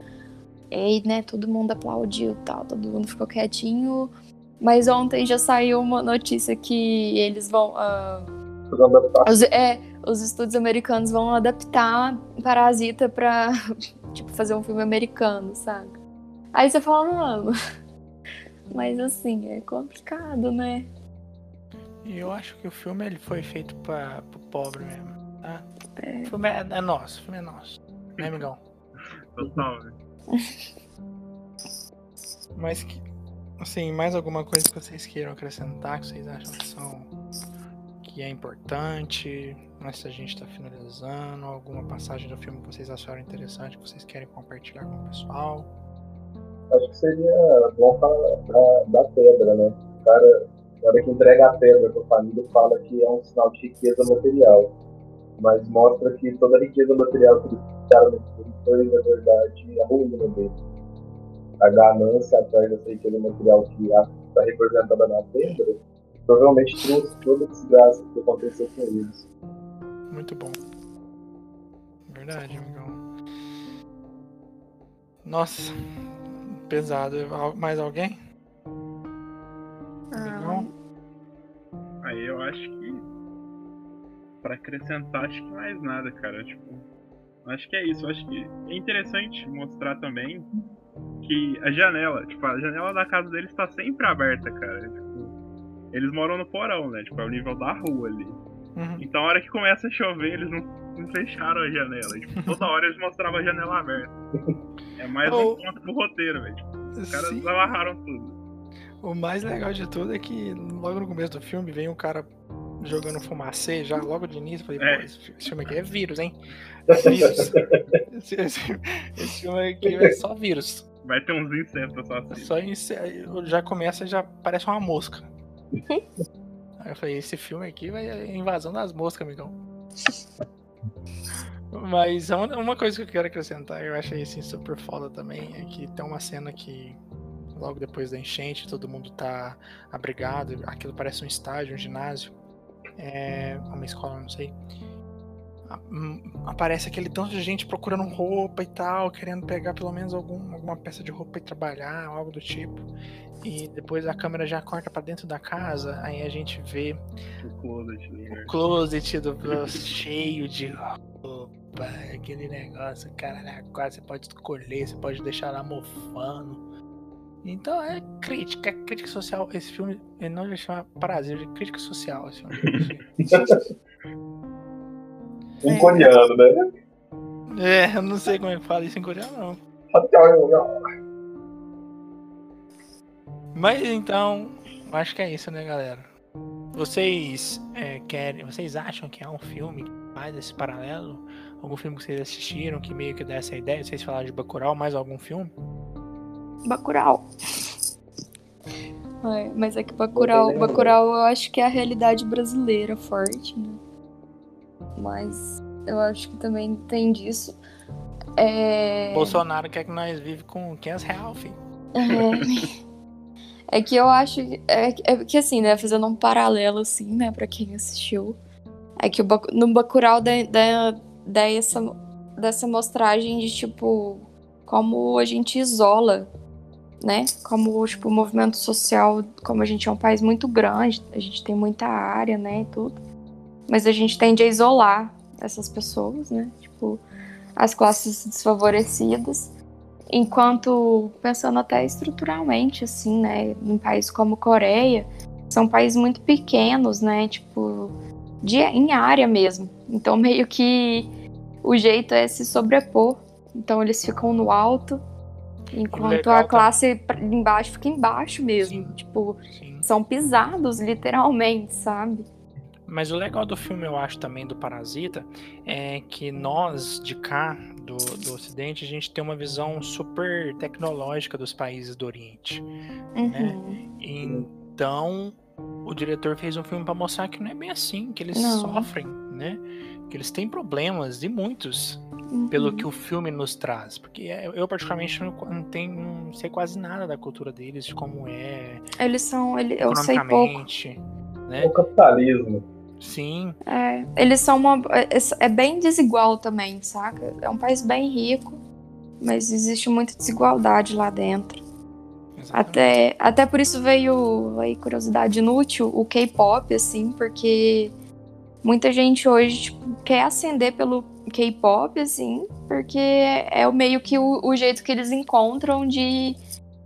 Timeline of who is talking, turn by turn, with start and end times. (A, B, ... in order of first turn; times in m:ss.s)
0:00.7-0:08.3 A
0:08.7-0:09.4 B
0:09.2-0:13.5 A
0:14.1-0:16.0 A
0:16.5-0:17.5 A
0:18.7-0:20.9 A
0:22.0-0:25.7 C
0:26.0-0:26.3 A
0:26.2-0:28.6 C
0:29.3-0:30.0 D
0:30.3-0:30.7 A
0:32.6-0:33.0 C
0:33.6-0:37.1 C
0:38.0-0:45.7 C
0:46.7-0:54.7 B
0:55.4-1:00.6 B
1:01.6-1:09.2 B
1:10.1-1:10.6 C
1:12.1-1:13.0 C
1:15.2-1:15.9 C
1:16.5-1:18.2 C
1:20.1-1:20.7 A
1:20.2-1:20.7 C
1:22.0-1:23.1 D
1:24.4-1:26.8 D
1:27.4-1:30.5 D
1:31.2-1:35.4 D
1:35.9-1:38.4 D
1:38.8-1:39.0 C
1:39.0-1:44.1 D
1:45.0-1:48.4 D
1:45.3-1:45.6 C
1:47.0-1:47.6 C
1:49.0-1:52.3 C
1:52.8-1:56.4 C
1:54.8-1:55.1 D
1:56.9-2:00.8 C
1:56.9-1:58.0 B
2:01.0-2:02.5 D
2:02.3-2:05.3 C
2:06.8-2:09.6 C
2:11.7-2:17.0 C
2:17.5-2:22.3 C
2:23.0-2:24.6 C
2:25.7-2:32.9 C
2:33.4-2:37.0 C
2:37.4-2:38.5 D
2:38.4-2:46.6 C
2:47.4-2:53.1 C
2:53.3-2:53.6 B
2:55.6-2:56.5 B
2:55.7-2:56.1 A
2:57.5-2:59.6 C
2:59.9-3:00.7 B
3:03.5-3:06.1 C
3:06.7-3:15.5 C
3:16.7-3:17.8 A
3:19.2-3:23.8 A
3:20.1-3:21.0 B
3:25.0-3:27.6 A
3:28.4-3:29.4 A
3:29.1-3:31.6 C
3:31.9-3:32.8 A
3:33.7-3:38.4 A
3:39.0-3:46.3 A
3:47.0-3:53.0 A
3:53.7-3:57.0 A
3:57.6-3:59.5 A
4:00.1-4:11.1 A
4:11.6-4:15.0 A
4:15.7-4:22.3 A
4:15.9-4:16.7 C
4:18.6-4:19.0 C
4:19.5-4:19.9 C
4:22.9-4:32.7 C
4:33.1-4:33.8 A
4:33.2-4:48.8 C
4:38.3-4:38.9 A
4:42.3-4:42.9 A
4:49.0-4:50.6 A
4:49.8-4:51.8 C
4:51.6-4:52.6 B
4:53.0-4:53.6 C
4:53.7-4:58.6 A
4:59.2-5:01.6 A
5:02.4-5:03.0 C
5:02.5-5:07.9 A
5:08.6-5:16.4 A